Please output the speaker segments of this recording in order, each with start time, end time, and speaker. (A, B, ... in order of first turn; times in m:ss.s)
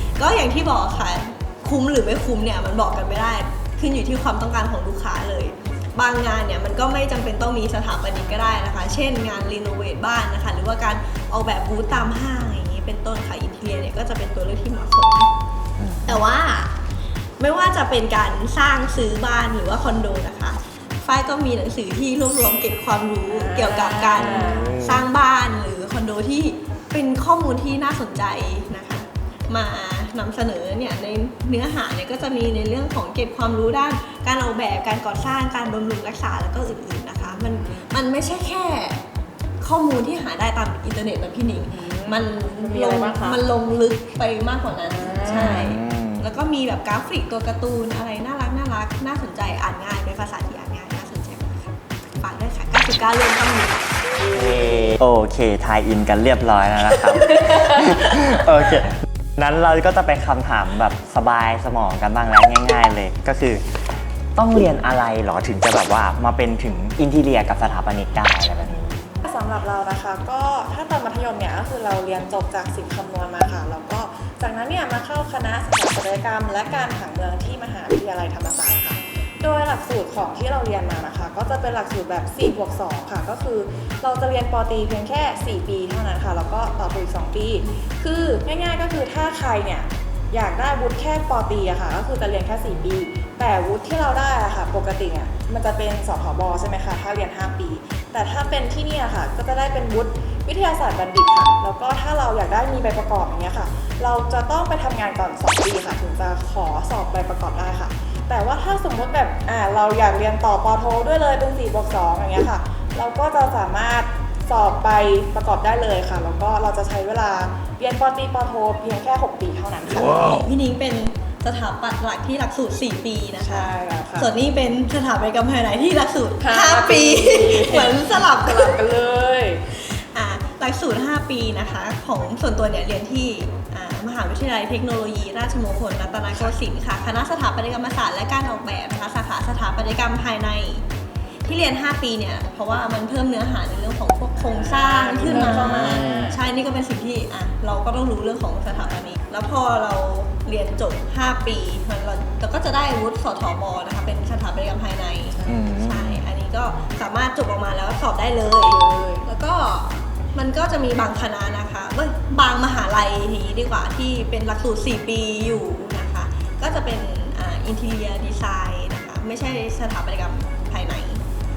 0:00.2-0:15.3 A
0:15.8-0:16.2 B
0:16.1-0:16.8 A
0:17.4-0:39.1 A
0:23.3-0:24.8 C
0:24.2-0:25.1 B
0:37.4-0:37.8 C
0:39.6-0:54.0 A
0:41.7-0:43.4 C
0:45.0-0:45.6 C
0:45.3-0:46.3 B
0:54.3-1:03.6 B
1:04.4-1:09.2 B
1:09.2-2:00.4 C
2:00.1-2:08.8 A
2:03.4-2:04.3 C
2:06.4-2:09.6 C
2:09.8-2:20.9 A
2:21.5-2:51.2 A
2:24.5-2:26.4 C
2:25.3-2:26.3 B
2:35.5-2:36.2 B
2:38.7-2:39.3 C